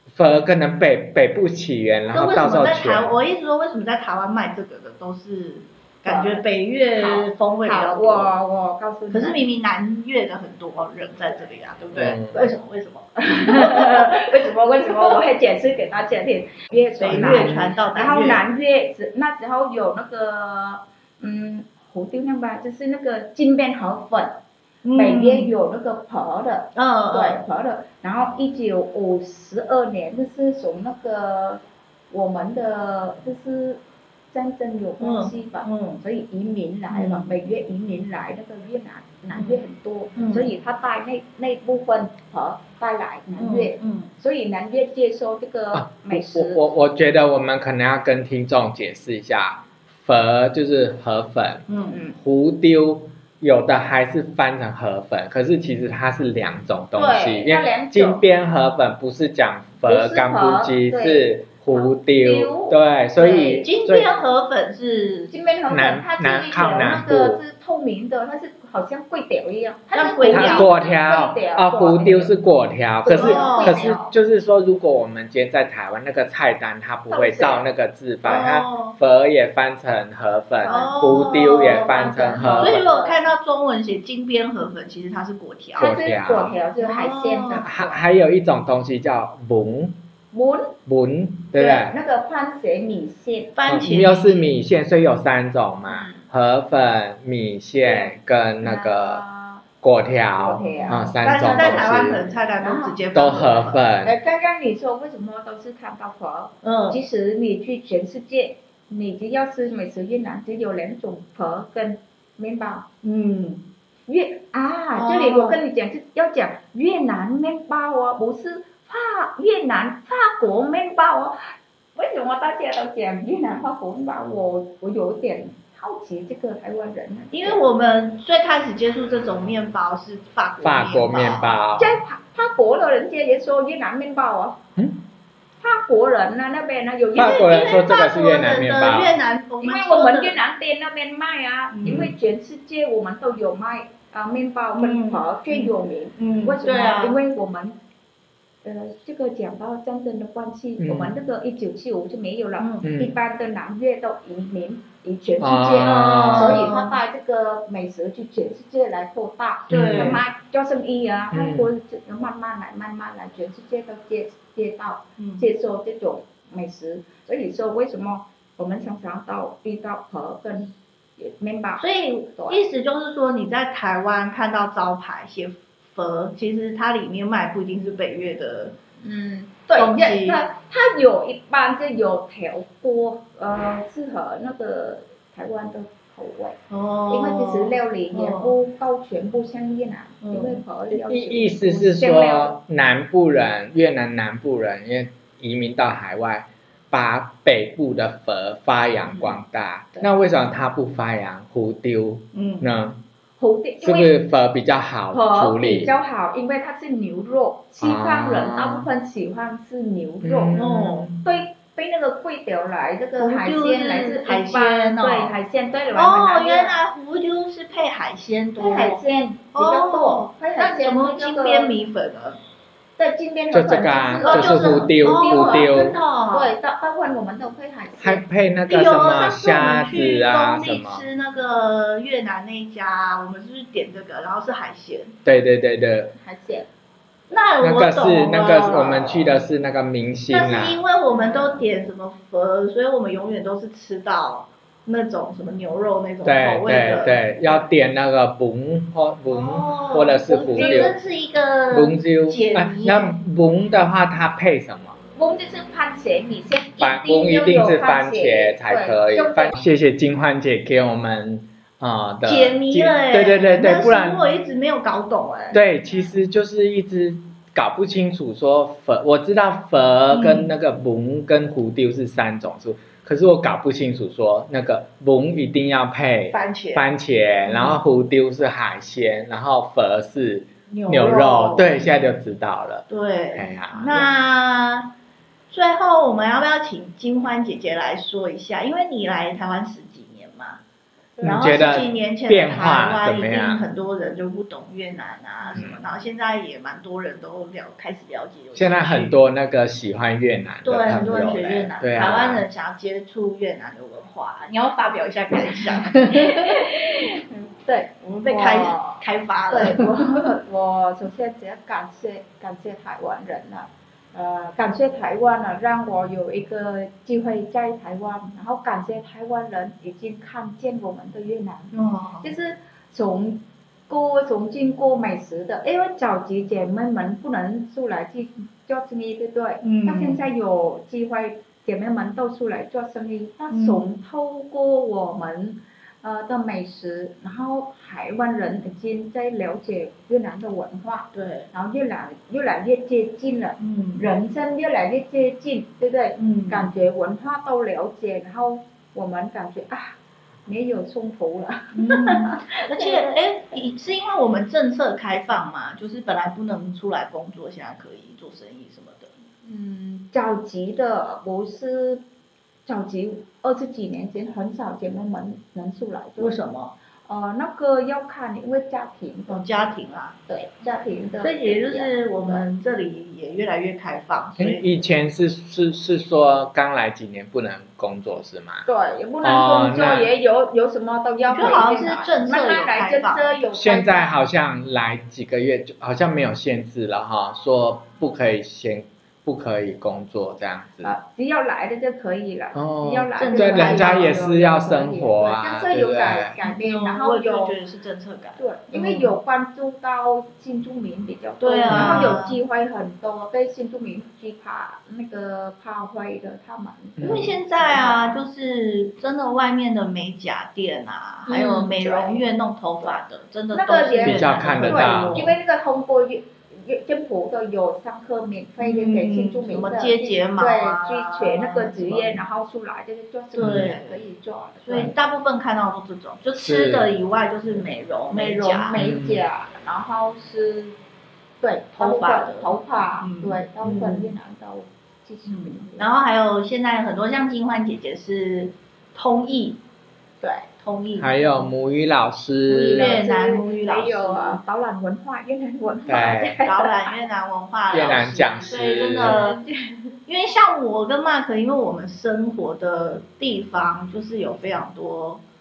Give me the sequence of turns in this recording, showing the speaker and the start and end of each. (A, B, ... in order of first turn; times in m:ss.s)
0:00.1-0:03.2 A
0:02.1-0:08.4 B
0:06.0-0:09.4 C
0:09.1-0:15.2 B
0:11.9-0:12.4 A
0:13.2-0:24.4 C
0:17.0-0:18.5 B
0:17.1-0:17.7 A
0:24.8-0:25.6 B
0:25.0-0:46.6 C
0:26.8-0:27.4 B
0:35.0-0:36.0 B
0:36.9-0:37.4 B
0:39.3-0:39.6 B
0:40.2-0:40.5 B
0:43.4-0:44.1 B
0:45.7-1:04.2 A
0:51.7-0:52.0 B
0:51.9-0:52.2 C
0:57.0-0:58.2 C
0:59.8-1:03.7 C
1:03.5-1:05.3 B
1:05.3-1:12.4 C
1:05.7-1:07.4 A
1:09.9-1:10.7 B
1:10.3-1:22.9 A
1:13.0-1:14.1 C
1:13.2-1:13.8 B
1:17.1-1:17.7 C
1:18.2-1:19.0 B
1:20.6-1:23.2 C
1:20.6-1:26.0 B
1:25.8-1:26.6 A
1:25.8-1:28.0 C
1:26.8-1:27.7 B
1:27.6-1:30.0 A
1:30.3-1:30.8 C
1:30.9-1:32.0 A
1:31.5-1:33.6 C
1:33.6-1:34.5 B
1:33.7-1:39.2 A
1:35.9-1:36.3 C
1:37.8-1:39.6 C
1:39.8-1:42.2 A
1:40.4-1:43.0 C
1:40.8-1:43.8 B
1:43.1-1:44.2 A
1:44.0-1:52.9 C
1:46.6-1:47.0 B
1:53.0-1:53.6 B
1:54.1-2:07.6 C
1:55.0-1:55.6 B
2:07.3-2:11.6 B
2:10.6-2:11.9 A
2:11.8-2:14.6 C
2:15.6-2:17.9 C
2:17.2-2:20.4 B
2:17.2-2:19.2 A
2:19.6-2:27.8 C
2:21.7-2:22.1 B
2:21.8-2:22.1 A
2:24.8-2:27.2 B
2:28.6-2:52.6 C
2:30.8-2:31.1 A
2:32.6-2:32.8 B
2:32.8-2:33.2 A
2:35.4-2:36.7 A
2:35.8-2:37.0 B
2:39.7-2:40.2 B
2:39.7-2:40.2 A
2:41.3-2:41.7 A
2:45.2-2:45.5 B
2:51.8-2:58.8 B
2:59.0-3:06.6 C
2:59.8-3:00.4 B
3:06.7-3:08.6 B
3:07.1-3:12.6 C
3:10.2-3:10.6 B
3:10.9-3:23.0 A
3:19.1-3:19.4 B
3:22.3-3:22.7 B
3:23.4-3:24.2 C
3:23.8-3:25.9 A
3:25.1-3:30.6 C
3:27.8-3:28.9 A
3:30.2-3:31.2 A
3:30.6-3:31.1 B
3:31.2-3:36.8 C
3:33.2-3:35.4 B
3:35.9-3:39.0 B
3:38.6-3:41.8 C
3:39.5-3:42.4 B
3:43.0-3:48.2 C
3:43.5-3:46.0 A
3:44.2-3:46.5 B
3:48.0-3:51.0 A
3:48.7-3:55.2 B
3:55.2-3:56.1 A
3:56.2-3:56.7 C
3:57.3-3:59.3 B
3:57.6-4:00.8 A
4:00.3-4:07.7 B
4:01.1-4:01.6 C
4:06.2-4:11.0 A
4:09.3-4:13.2 B
4:10.3-4:11.0 C
4:11.7-4:15.0 A
4:15.2-4:19.6 C
4:16.8-4:24.2 A
4:22.2-4:25.6 B
4:25.5-4:44.1 A
4:30.1-4:30.5 B
4:36.3-4:36.9 B
4:37.4-4:37.8 B
4:40.7-4:41.7 B
4:42.9-4:44.9 B
4:45.5-4:50.6 B
4:51.2-4:53.7 A
4:51.2-4:59.2 B
4:58.6-5:02.5 A
5:00.6-5:06.7 B
5:06.0-5:53.2 C
5:08.0-5:10.1 B
5:21.7-5:22.3 B
5:29.6-5:30.2 B
5:33.5-5:33.8 B
5:41.1-5:41.5 B
5:43.6-5:44.1 B
5:46.2-5:46.7 B
5:51.7-5:59.1 B
5:59.4-6:02.0 C
6:02.7-6:06.4 C
6:06.2-6:06.8 B
6:07.0-6:09.4 C
6:09.3-6:10.2 B
6:10.3-6:12.5 C
6:11.2-6:14.7 B
6:14.4-6:18.7 A
6:18.7-6:24.1 C
6:19.2-6:20.1 A
6:21.3-6:23.4 B
6:23.5-6:30.9 A
6:30.8-6:37.6 C
6:32.6-6:36.4 A
6:33.2-6:34.1 B
6:36.4-6:39.1 B
6:38.4-6:48.2 C
6:41.4-6:42.4 B
6:41.7-6:42.2 A
6:47.0-6:47.4 A
6:47.0-6:55.4 B
6:51.3-6:52.3 C
6:53.5-7:04.9 C
6:54.0-6:55.3 A
6:58.6-7:02.2 B
7:03.4-7:04.1 B
7:03.4-7:03.7 A
7:04.6-7:08.8 B
7:06.4-7:06.9 A
7:08.1-7:10.8 C
7:08.8-7:09.2 A
7:11.4-7:15.9 C
7:11.8-7:14.1 B
7:15.3-7:19.6 B
7:20.2-7:20.5 C
7:20.6-7:21.5 B
7:21.0-7:23.0 A
7:22.5-7:27.0 C
7:22.7-7:24.4 B
7:25.9-7:26.4 A
7:26.4-7:29.4 B
7:27.7-7:29.3 A
7:29.0-7:29.9 C
7:30.1-7:35.2 B